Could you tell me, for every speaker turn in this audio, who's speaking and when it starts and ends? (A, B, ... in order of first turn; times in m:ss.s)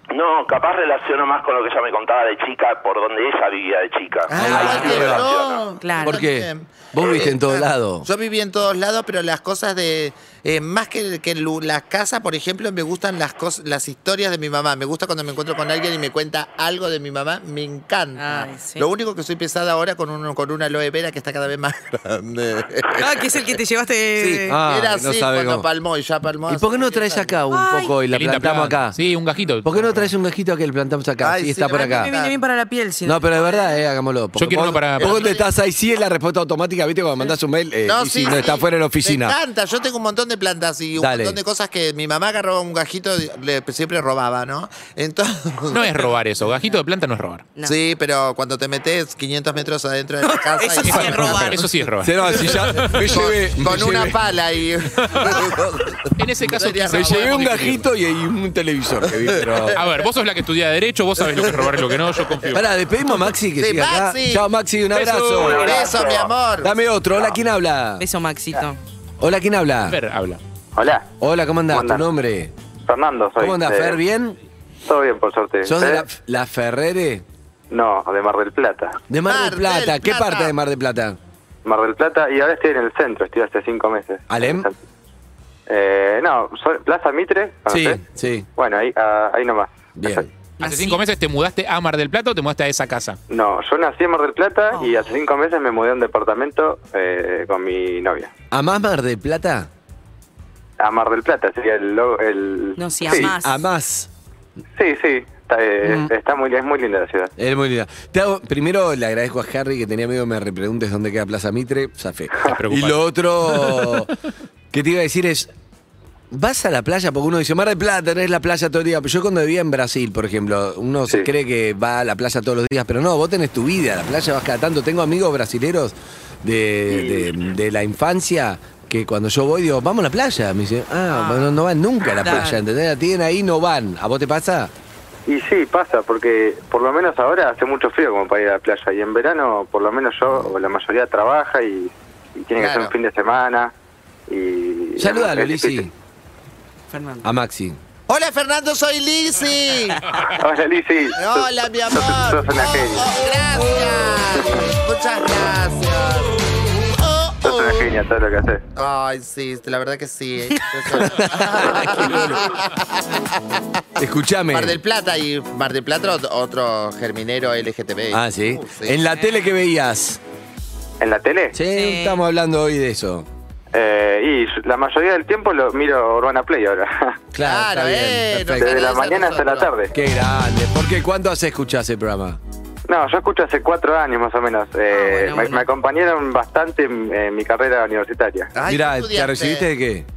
0:00.1-0:05.6 A
0:04.3-0:23.3 B
0:04.3-0:05.3 C
0:04.5-0:04.7 D
0:05.8-0:06.2 D
0:06.0-0:08.0 C
0:18.2-0:18.9 D
0:22.9-0:24.6 D
0:24.2-0:27.4 B
0:24.5-0:25.6 C
0:26.5-0:29.0 C
0:27.5-0:27.9 D
0:28.1-0:30.0 E
0:29.6-0:32.1 C
0:31.2-0:32.4 B
0:31.7-0:33.7 D
0:33.0-0:39.4 C
0:34.4-0:35.3 E
0:35.0-0:35.4 B
0:37.8-0:46.2 B
0:41.0-0:41.4 C
0:45.7-0:47.5 E
0:47.6-0:51.6 B
0:50.2-0:51.9 D
0:50.9-0:53.2 E
0:52.0-0:54.2 C
0:53.0-0:57.7 B
0:56.2-0:57.8 E
0:56.9-0:59.8 C
0:59.7-1:02.6 E
1:01.3-1:01.7 B
1:02.5-1:05.7 C
1:03.6-1:04.5 B
1:04.9-1:05.5 E
1:05.3-1:06.3 A
1:05.4-1:06.7 B
1:06.6-1:08.0 C
1:08.0-1:08.8 D
1:09.2-1:10.0 C
1:09.9-1:10.4 E
1:10.8-1:11.0 F
1:11.2-1:12.5 C
1:11.7-1:12.0 F
1:12.8-1:14.0 F
1:13.4-1:14.4 C
1:14.8-1:16.1 F
1:15.6-1:17.2 C
1:17.7-1:19.0 F
1:19.1-1:21.2 C
1:19.2-1:20.5 B
1:21.6-1:24.7 F
1:24.3-1:24.7 C
1:25.7-1:28.0 F
1:27.7-1:28.5 C
1:28.6-1:30.2 F
1:30.0-1:30.3 C
1:30.6-1:31.0 D
1:30.6-1:33.2 E
1:33.3-1:38.3 F
1:34.7-1:35.0 D
1:38.5-1:39.7 C
1:40.8-1:43.3 F
1:42.8-1:43.6 D
1:43.1-1:44.1 C
1:44.8-1:47.3 F
1:45.8-1:46.1 C
1:47.4-1:54.1 C
1:52.4-1:54.0 E
1:54.7-1:55.5 C
1:56.3-2:14.7 C
2:06.9-2:07.4 F
2:11.1-2:11.6 D
2:12.2-2:12.6 D
2:15.3-2:23.7 F
2:22.6-2:22.9 B
2:24.3-2:25.9 F
2:25.0-2:25.9 C
2:26.9-2:27.3 D
2:27.2-2:27.8 C
2:28.1-2:30.1 B
2:30.3-2:33.1 F
2:31.2-2:37.9 B
2:37.4-2:38.6 F
2:38.8-2:43.3 B
2:40.9-2:42.5 C
2:44.0-2:44.8 C
2:44.5-2:49.0 B
2:48.1-2:50.2 C
2:51.0-2:51.6 F
2:51.5-2:53.3 C
2:51.7-2:52.2 D
2:53.7-2:57.2 F
2:57.3-2:58.8 C
2:57.4-2:59.7 B
2:58.6-2:59.9 F
2:59.9-3:02.4 C
3:02.9-3:08.5 F
3:04.9-3:05.7 D
3:08.5-3:09.6 B
3:08.7-3:10.1 C